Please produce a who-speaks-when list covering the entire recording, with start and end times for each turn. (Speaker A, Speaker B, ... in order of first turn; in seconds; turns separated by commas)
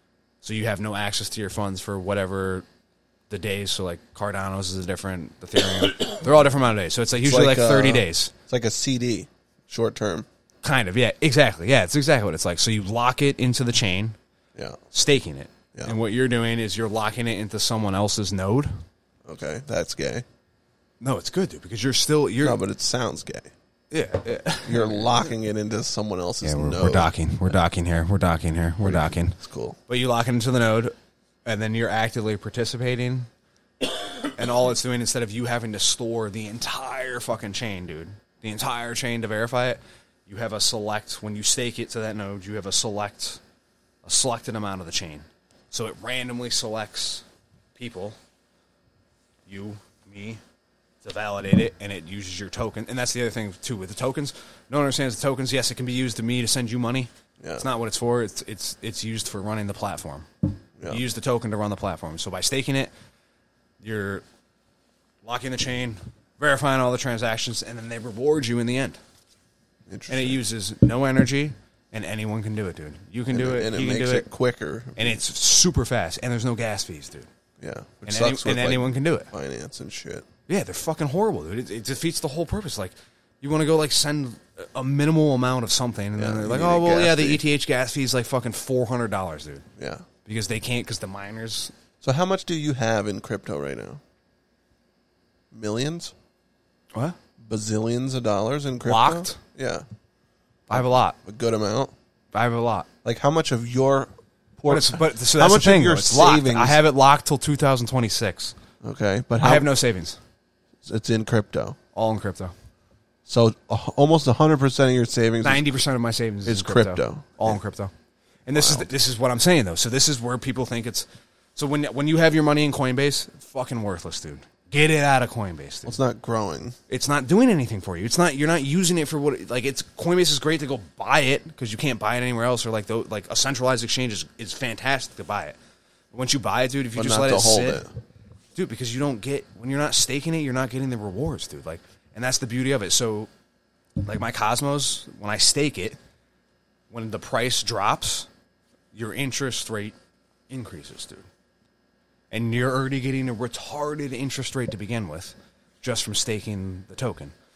Speaker A: 0.4-2.6, Speaker A: 3.3-8.3, Speaker B: 7.2-10.3, Speaker A: 10.6-14.2, Speaker A: 14.9-18.7, Speaker B: 19.2-20.2, Speaker A: 21.0-22.6, Speaker B: 22.4-23.5, Speaker A: 23.9-25.2, Speaker B: 24.6-27.1, Speaker A: 26.4-29.4, Speaker B: 28.8-29.8, Speaker A: 29.9-30.9, Speaker A: 31.4-33.3, Speaker A: 34.2-43.4, Speaker A: 44.0-47.2, Speaker A: 47.8-48.2, Speaker A: 49.5-50.4, Speaker A: 51.0-60.3, Speaker B: 57.4-57.6, Speaker A: 60.9-62.9, Speaker A: 63.8-64.2, Speaker A: 65.2-69.0, Speaker B: 69.9-70.4, Speaker A: 70.1-74.2, Speaker B: 73.3-75.2, Speaker A: 75.0-77.3, Speaker B: 77.6-80.2, Speaker A: 78.0-79.3, Speaker A: 80.5-89.6, Speaker B: 86.2-87.4, Speaker B: 89.8-90.0, Speaker A: 90.2-91.7, Speaker B: 92.0-94.0, Speaker B: 95.5-96.1, Speaker B: 97.4-99.8, Speaker A: 98.8-99.4, Speaker A: 100.7-101.2, Speaker B: 100.7-101.9, Speaker A: 102.3-102.9, Speaker B: 103.0-106.8, Speaker A: 104.7-108.5, Speaker B: 108.8-109.7, Speaker A: 109.4-110.2, Speaker B: 110.8-111.8, Speaker A: 111.9-112.5, Speaker B: 113.3-115.6, Speaker A: 115.4-117.9, Speaker B: 116.5-117.6, Speaker A: 118.5-126.0, Speaker B: 118.5-118.9, Speaker B: 125.8-126.8, Speaker A: 126.9-135.6, Speaker A: 136.1-137.8, Speaker B: 136.9-137.9, Speaker A: 138.5-143.3, Speaker A: 144.0-146.0, Speaker A: 146.9-148.3, Speaker A: 148.9-149.9, Speaker A: 150.5-151.3, Speaker A: 152.3-157.3